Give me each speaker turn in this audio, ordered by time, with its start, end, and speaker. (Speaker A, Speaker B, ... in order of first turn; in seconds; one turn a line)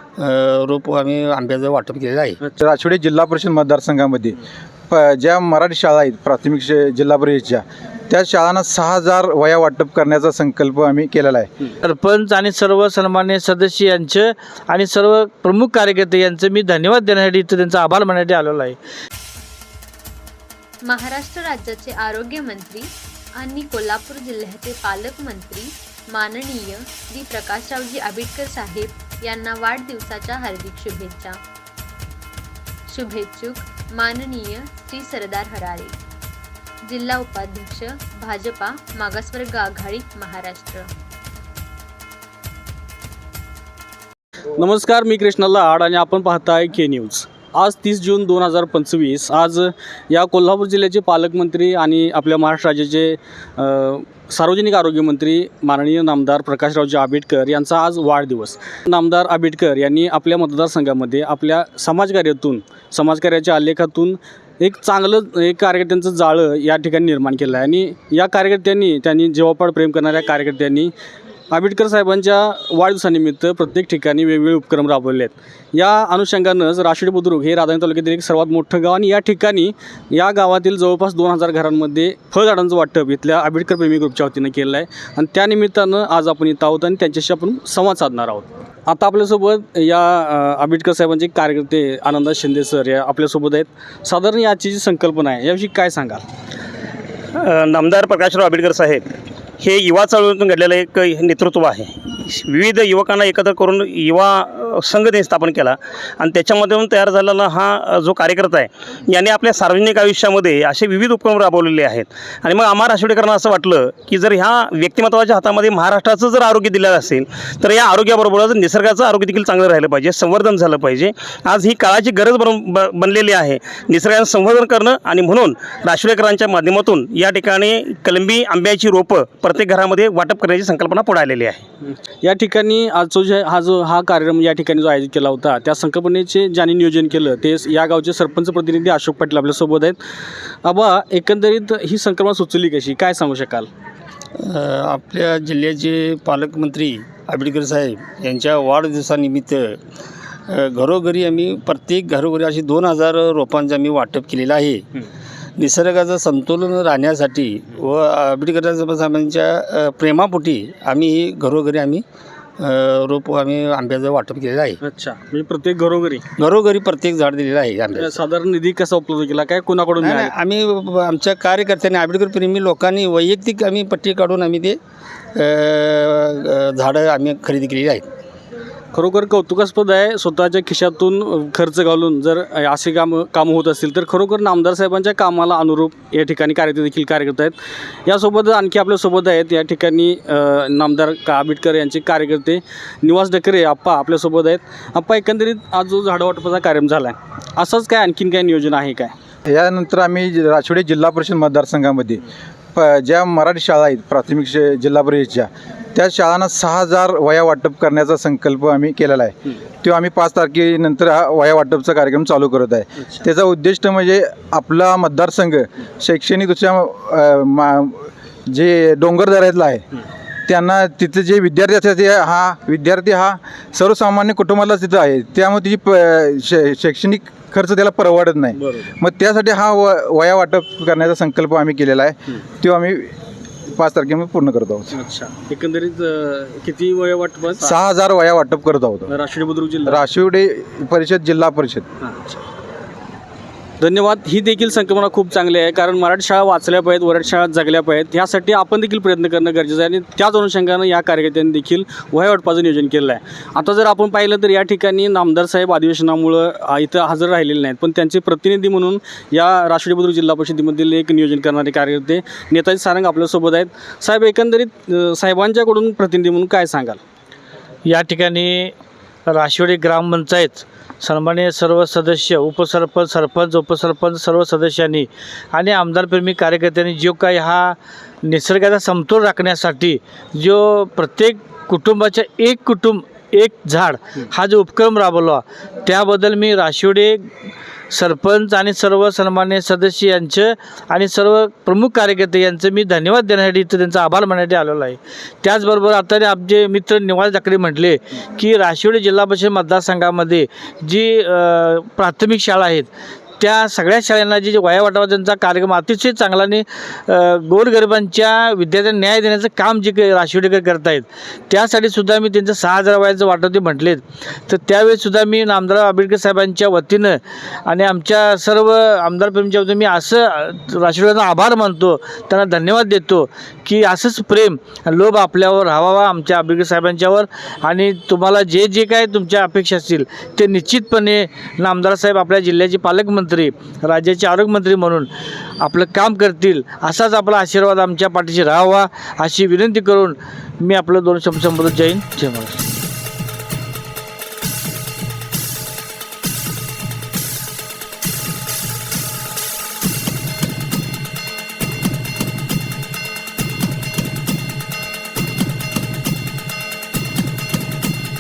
Speaker A: 0.2-2.4
Speaker B: 2.6-4.4
Speaker B: 4.9-11.5
Speaker C: 11.8-18.8
Speaker D: 20.9-31.4
Speaker D: 32.9-36.0
Speaker D: 36.9-40.9
Speaker E: 44.5-70.9
Speaker E: 71.5-96.2
Speaker F: 97.3-99.1
Speaker F: 99.6-131.6
Speaker E: 131.8-140.0
Speaker E: 140.6-143.7
Speaker A: 144.4-149.8
Speaker A: 150.5-154.9
Speaker A: 155.6-162.0
Speaker A: 162.6-164.8
Speaker E: 164.8-166.2
Speaker A: 166.4-168.2
Speaker E: 168.0-170.3
Speaker A: 170.0-174.8
Speaker A: 175.3-178.1
Speaker E: 178.9-199.1
Speaker B: 199.5-202.2
Speaker B: 202.8-219.8
Speaker B: 220.5-233.1
Speaker E: 228.6-228.9
Speaker B: 233.7-234.9
Speaker E: 234.9-237.7
Speaker B: 237.6-239.1
Speaker E: 239.1-240.0
Speaker B: 239.8-241.9
Speaker E: 242.0-242.4
Speaker E: 243.8-267.0
Speaker C: 267.9-268.7
Speaker C: 269.3-287.3
Speaker C: 287.9-342.6